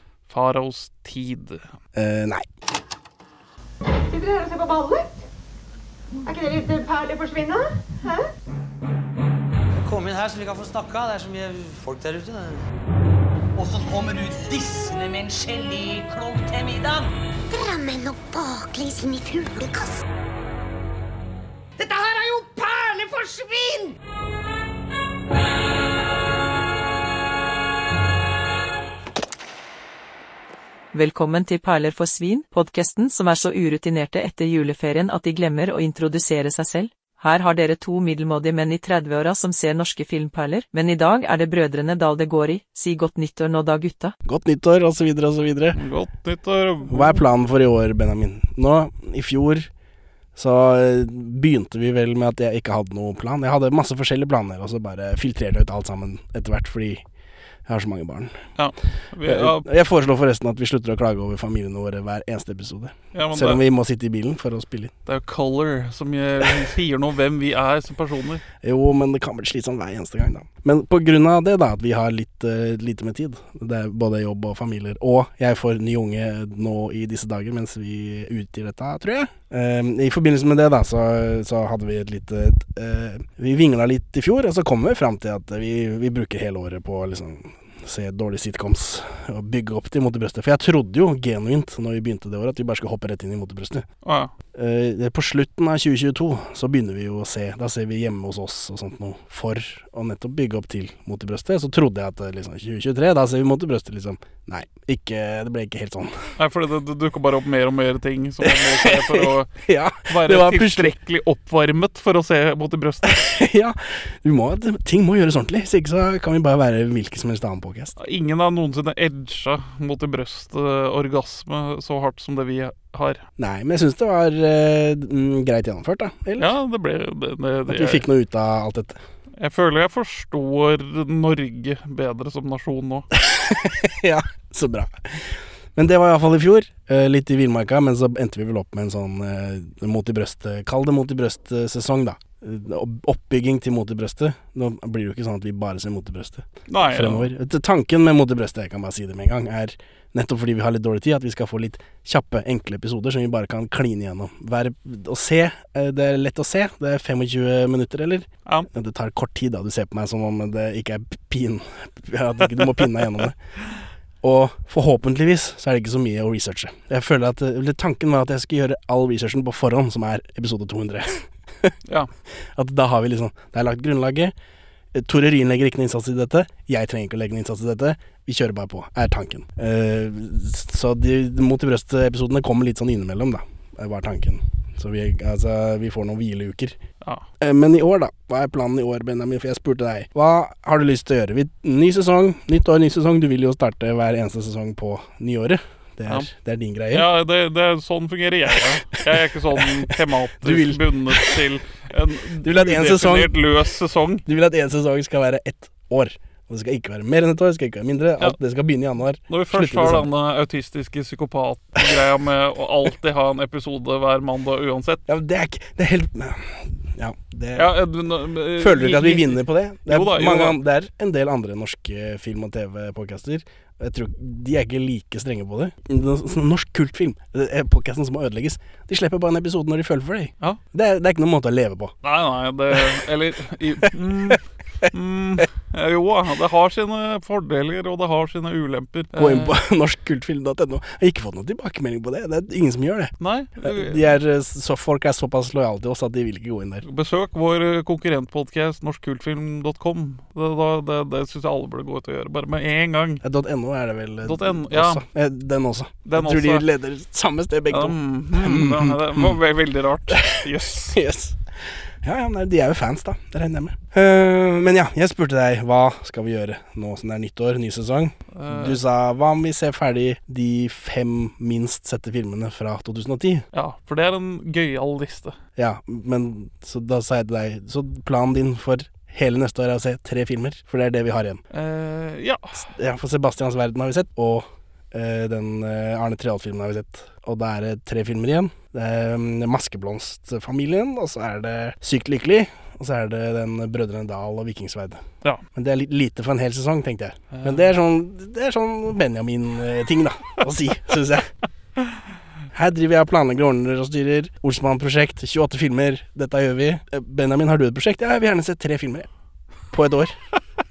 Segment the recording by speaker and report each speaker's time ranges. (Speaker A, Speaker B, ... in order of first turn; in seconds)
Speaker A: 0.3-1.6, 45.7-47.2, 58.6-59.7, 63.1-63.6, 65.0-68.4, 94.0-94.3, 106.4-109.5, 110.1-113.3, 118.0-123.2, 126.4-128.1, 129.4-133.1, 146.7-147.3, 162.8-163.3, 196.9-204.2, 209.3-215.1, 217.5-220.6, 232.0-239.6, 243.2-244.1, 246.8-253.2, 254.2-255.0, 256.1-256.6, 257.7-261.0, 268.3-268.8, 273.5-275.3, 281.5-282.5, 297.3-297.7
Speaker B: 1.9-2.5, 44.2-45.8, 46.9-49.7, 50.4-57.0, 57.7-58.4, 59.2-64.9, 68.6-93.8, 94.5-106.1, 108.4-110.9, 113.0-117.9, 123.4-126.5, 127.7-129.0, 133.1-163.3, 164.2-171.7, 172.6-174.3, 174.9-186.8, 187.4-197.1, 200.4-201.4, 202.4-203.4, 204.2-210.1, 215.1-217.7, 218.6-231.9, 233.9-234.3, 239.2-246.8, 253.2-259.4, 260.1-261.4, 262.0-273.4, 275.6-281.4, 282.6-295.0, 295.5-301.3, 302.5-309.1, 309.7-310.2
Speaker C: 4.0-5.2, 6.2-8.3
Speaker D: 9.8-12.6, 13.6-17.1, 21.8-23.9
Speaker E: 17.5-20.0
Speaker F: 30.9-44.1